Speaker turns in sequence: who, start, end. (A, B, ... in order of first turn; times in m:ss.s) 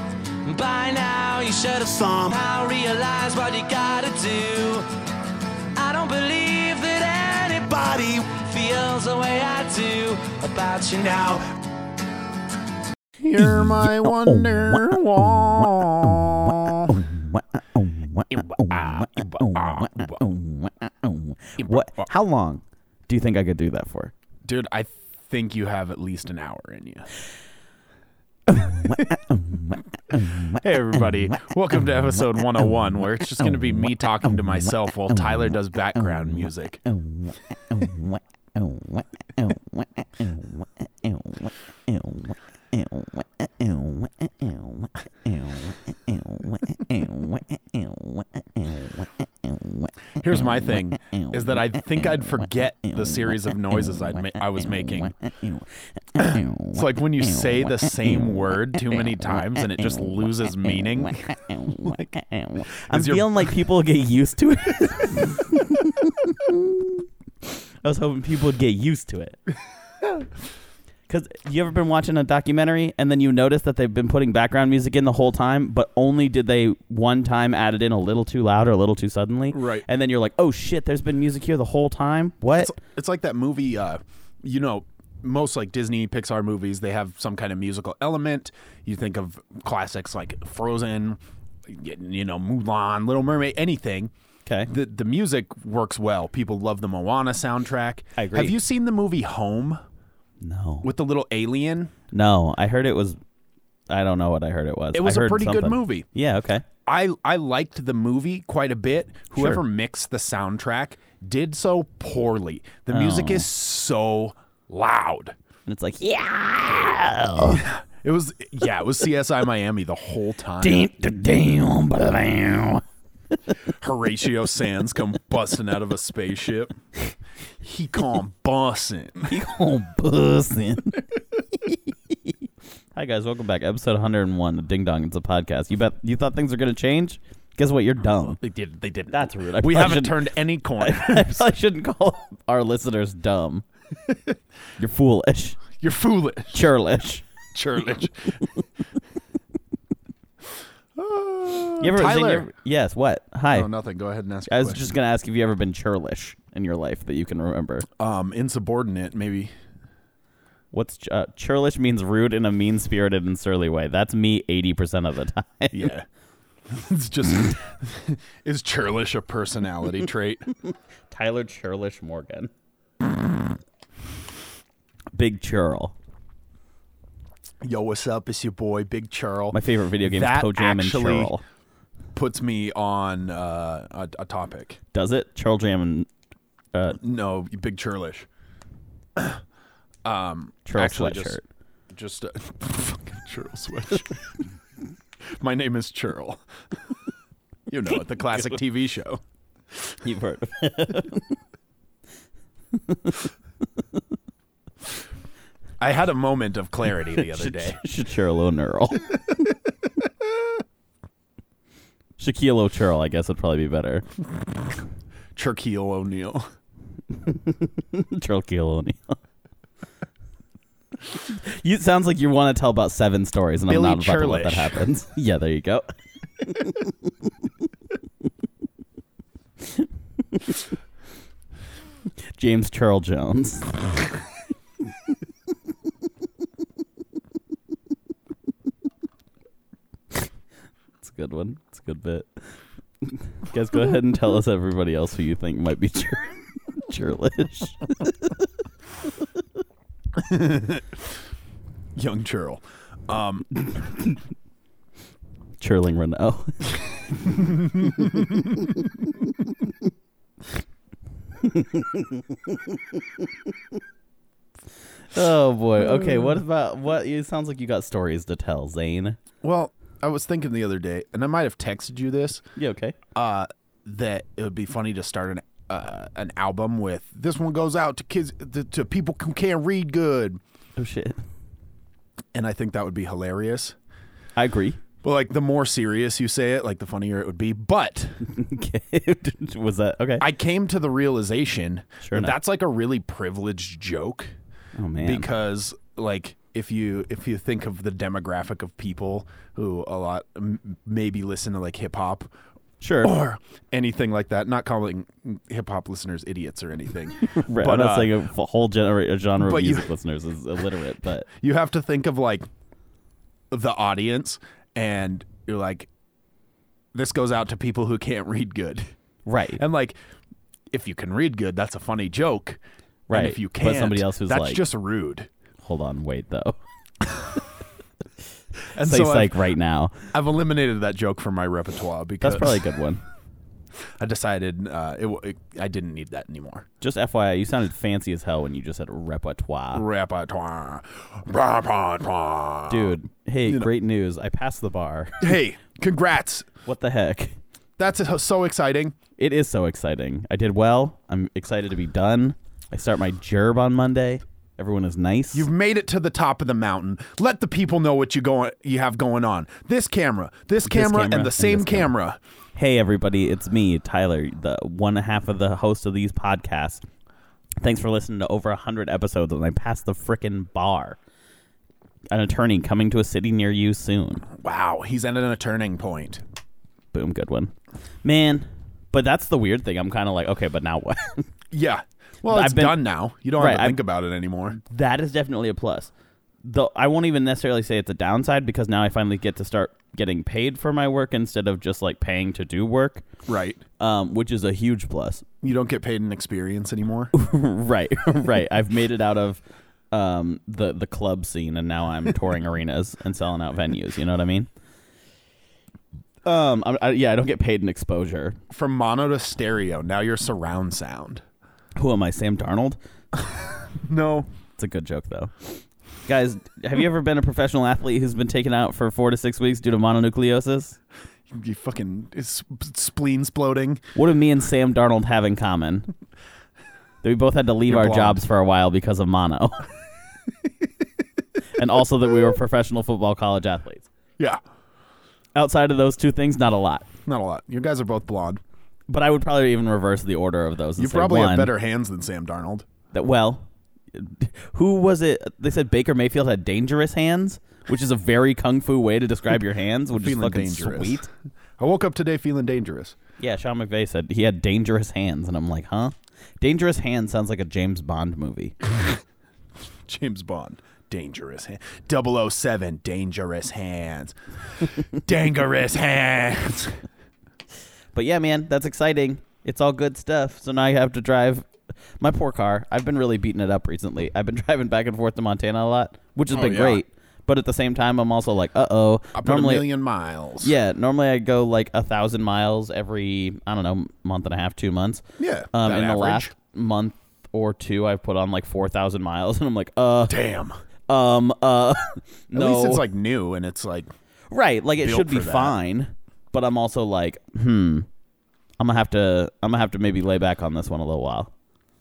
0:00.4-0:04.9 A
0:05.7-0:11.5 A
0:13.2-0:17.0 B
0:13.4-0:24.1 C
0:18.3-0:20.2 B
0:21.6-0:22.1 B
0:24.4-0:27.1 B
0:28.5-0:29.6 C
0:30.1-0:36.8 B
0:37.0-0:49.9 C
0:50.2-0:55.2 B
0:55.1-0:56.8 C
0:56.2-1:02.2 B
0:57.4-0:58.4 C
0:58.9-0:59.6 C
1:01.0-1:07.0 C
1:02.9-1:03.5 B
1:07.8-1:09.4 C
1:11.1-1:22.7 C
1:19.5-1:19.8 B
1:22.5-1:34.1 B
1:34.4-1:34.7 C
1:34.7-1:39.8 B
1:38.2-1:38.6 C
1:40.4-1:40.9 C
1:40.8-1:41.9 B
1:42.1-1:43.2 C
1:43.9-1:46.6 C
1:44.9-1:46.0 B
1:46.8-1:55.3 B
1:52.9-1:53.5 C
1:55.7-1:57.7 C
1:57.4-2:00.9 B
2:00.6-2:02.8 C
2:03.6-2:06.8 B
2:07.6-2:09.3 B
2:09.3-2:11.0 C
2:11.6-2:12.4 C
2:13.0-2:18.4 C
2:18.4-2:21.5 B
2:19.1-2:23.6 C
2:24.8-2:25.6 C
2:25.8-2:26.7 B
2:26.5-2:27.2 C
2:27.5-2:28.5 B
2:31.0-2:32.5 B
2:31.8-2:33.7 C
2:33.5-2:34.9 B
2:34.5-2:37.8 C
2:38.0-2:39.5 B
2:40.7-2:45.9 C
2:45.7-2:46.0 B
2:46.7-2:50.5 B
2:51.1-2:52.5 C
2:55.1-2:55.9 C
2:57.6-3:01.3 B
2:59.5-3:01.4 C
3:02.1-3:04.8 B
3:04.9-3:06.1 C
3:06.7-3:07.0 C
3:07.0-3:08.3 B
3:10.0-3:11.4 B
3:10.6-3:11.4 C
3:11.9-3:14.4 B
3:15.3-3:16.4 B
3:17.7-3:19.2 B
3:20.0-3:21.4 C
3:22.7-3:23.3 C
3:25.8-3:27.8 B
3:27.2-3:29.2 C
3:32.2-3:34.0 C
3:35.4-3:36.4 B
3:37.1-3:39.2 C
3:41.3-3:47.3 C
3:43.7-3:44.8 B
3:49.7-3:50.6 C
3:52.3-3:54.0 C
4:01.0-4:02.3 C
4:03.0-4:08.5 C
4:10.1-4:11.0 B
4:12.0-4:13.5 B
4:13.8-4:14.1 C
4:15.6-4:19.1 C
4:17.7-4:18.6 B
4:21.4-4:23.8 C
4:25.1-4:29.2 C
4:25.8-4:26.4 B
4:29.4-4:32.4 B
4:32.6-4:33.0 C
4:33.1-4:40.4 B
4:40.8-4:41.2 C
4:42.3-4:43.8 B
4:44.4-4:44.8 C
4:45.0-4:48.2 B
4:48.2-4:50.3 C
4:50.2-4:54.3 B
4:52.0-4:52.3 C
4:54.8-4:55.3 C
4:55.0-5:02.3 B
5:02.8-5:03.1 C
5:03.0-5:08.2 B
5:07.2-5:11.3 C
5:09.4-5:09.9 B
5:11.3-5:12.4 B
5:13.5-5:15.9 B
5:16.9-5:18.9 B
5:19.2-5:19.6 C
5:19.6-5:20.0 B
5:20.7-5:22.6 B
5:23.1-5:24.6 C
5:23.1-5:25.3 B
5:25.6-5:26.6 C
5:28.7-5:29.4 B
5:28.8-5:29.9 C
5:30.1-5:32.6 B
5:32.2-5:33.0 C
5:34.0-5:36.6 B
5:36.8-5:39.8 C
5:39.7-5:42.9 B
5:42.7-5:45.3 C
5:45.2-5:46.5 B
5:46.6-5:47.4 C
5:47.8-5:48.9 B
5:49.2-5:55.5 C
5:55.3-6:02.2 B
6:00.6-6:01.9 C
6:02.5-6:06.8 C
6:07.6-6:11.0 C
6:12.1-6:14.3 C
6:14.3-6:16.2 B
6:16.9-6:17.5 C
6:18.0-6:21.2 C
6:21.5-6:24.6 B
6:22.3-6:22.8 C
6:23.4-6:23.8 C
6:24.6-6:25.9 C
6:26.4-6:33.0 C
6:33.3-6:33.6 B
6:33.8-6:35.2 C
6:35.4-6:37.1 B
6:37.1-6:39.4 C
6:39.9-6:44.5 C
6:46.2-6:48.4 C
6:48.5-6:51.2 B
6:51.8-6:52.8 C
6:53.7-6:54.3 B
6:54.6-6:55.5 C
6:56.0-7:00.8 C
7:01.3-7:03.8 B
7:04.0-7:05.9 C
7:07.0-7:09.6 C
7:07.7-7:08.2 B
7:11.5-7:13.9 C
7:15.4-7:16.9 C
7:17.0-7:18.4 B
7:18.9-7:21.5 C
7:20.8-7:22.6 B
7:22.9-7:31.1 C
7:30.0-7:31.0 B
7:31.6-7:33.0 B
7:33.2-7:38.6 C
7:39.8-7:46.8 B
7:47.9-7:51.4 C
7:52.0-7:59.7 C
7:56.3-7:56.8 B
7:59.2-8:00.5 B
8:00.4-8:10.2 C
8:05.2-8:06.3 B
8:10.1-8:10.5 B
8:10.9-8:12.8 C
8:12.3-8:13.9 B
8:14.3-8:17.8 C
8:14.8-8:15.5 B
8:18.6-8:21.3 C